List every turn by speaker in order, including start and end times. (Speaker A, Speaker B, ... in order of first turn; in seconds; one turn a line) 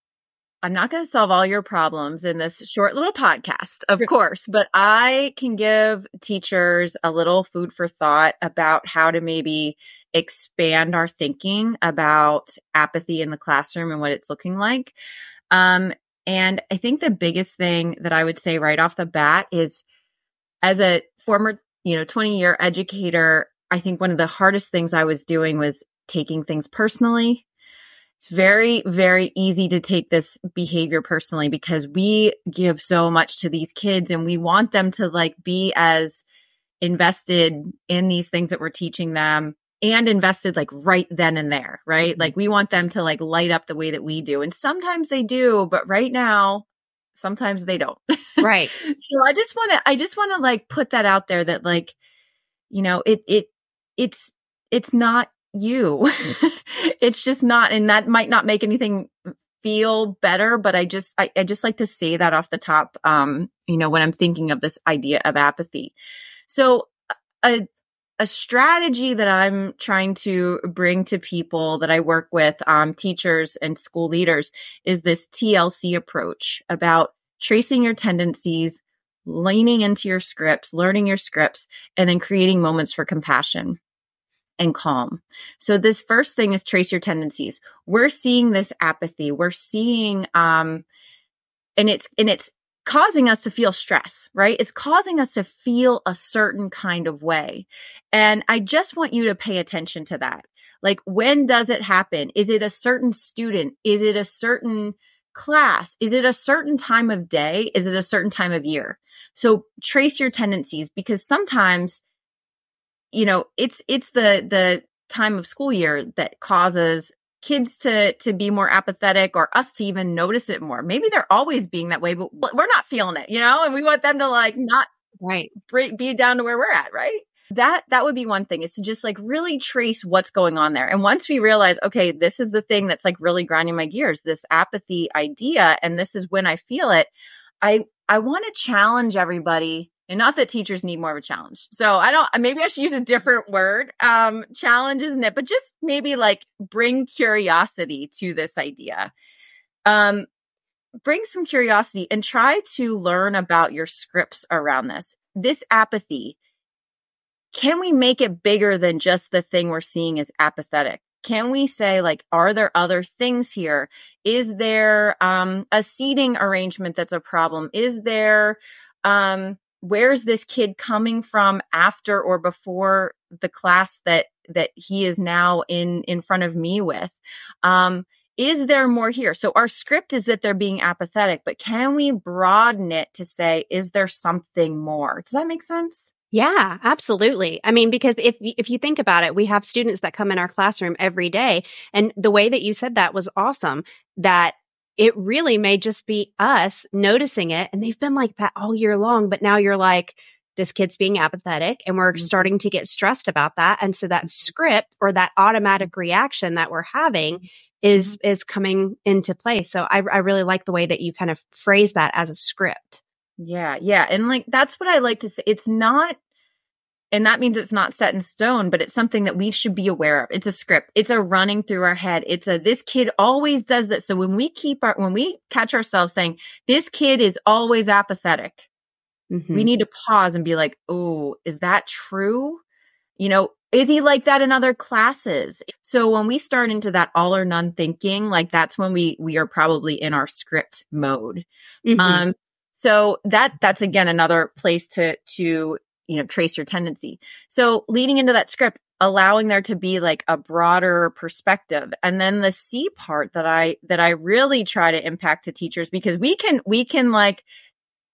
Speaker A: 0.6-14.9
Speaker A: 15.5-19.8
Speaker A: 20.6-27.4
Speaker A: 28.2-36.2
Speaker A: 36.8-51.9
Speaker B: 48.4-48.7
Speaker A: 52.7-65.9
Speaker A: 66.5-67.6
Speaker A: 68.2-83.8
Speaker A: 84.6-90.8
Speaker A: 91.8-112.0
Speaker A: 113.1-124.9
Speaker B: 125.2-125.5
Speaker A: 125.6-137.1
Speaker A: 137.6-149.1
Speaker A: 149.8-150.3
Speaker A: 151.0-156.4
Speaker A: 157.5-186.1
Speaker B: 186.3-213.0
Speaker A: 202.1-202.5
Speaker A: 213.4-216.2
Speaker A: 217.1-228.7
Speaker B: 229.3-229.7
Speaker A: 229.5-232.6
Speaker A: 233.2-241.4
Speaker B: 241.8-242.2
Speaker A: 242.0-257.4